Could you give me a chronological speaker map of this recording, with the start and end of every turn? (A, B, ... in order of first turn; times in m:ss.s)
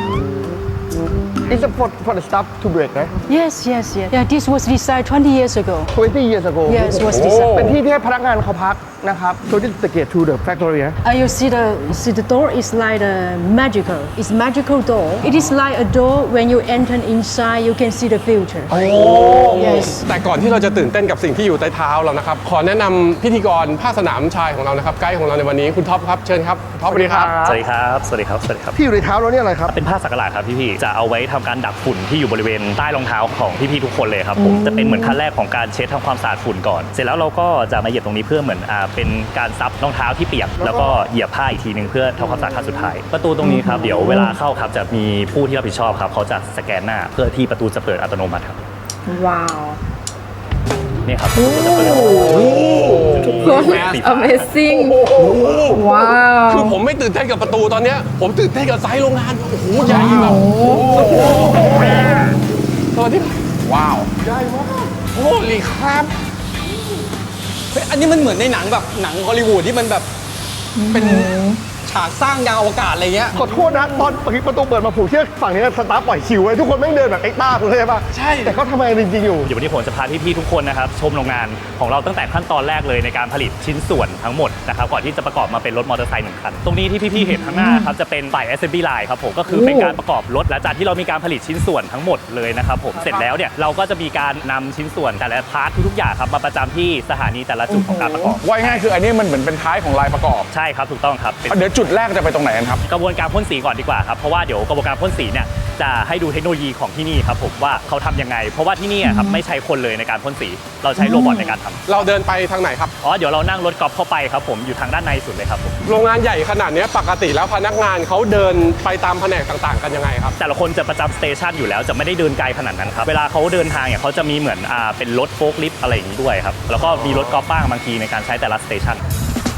0:01.5-0:03.1 A
0:03.3-0:05.9 B
0:05.9-0:11.0 A
0:06.7-0:07.7 B
0:07.0-0:07.8 C
0:11.0-0:20.1 B
0:18.7-0:26.7 D
0:19.0-0:19.8 A
0:26.8-0:27.5 C
0:26.8-0:27.6 A
0:27.4-0:28.8 E
0:28.8-0:29.8 A
0:29.7-0:48.6 E
0:34.4-0:35.2 F
0:40.6-0:41.0 A
0:43.4-0:44.3 F
0:49.1-0:49.8 F
0:51.0-0:52.3 E
0:51.3-0:56.8 F
0:52.2-0:54.0 D
0:52.2-0:53.6 C
0:53.1-0:54.5 E
0:54.7-1:02.1 D
0:55.3-0:55.8 C
0:59.8-1:02.2 F
0:59.8-1:01.8 C
1:02.9-1:03.4 D
1:03.6-1:04.1 C
1:04.2-1:04.9 A
1:05.1-1:06.1 G
1:07.7-1:10.1 G
1:10.8-1:11.6 F
1:10.9-1:13.3 G
1:13.3-1:19.5 A
1:13.4-1:14.1 F
1:18.1-1:18.6 G
1:19.4-1:38.8 E
1:27.2-1:27.9 F
1:29.5-1:30.0 F
1:33.0-1:33.2 F
1:37.7-1:38.4 F
1:38.4-1:40.5 C
1:40.5-1:41.6 E
1:41.5-1:42.8 C
1:42.8-1:51.8 E
1:49.0-1:49.4 F
1:51.0-1:51.5 F
1:51.9-1:52.9 D
1:53.0-1:55.8 E
1:55.9-2:00.4 D
2:00.4-2:09.0 E
2:06.9-2:07.3 D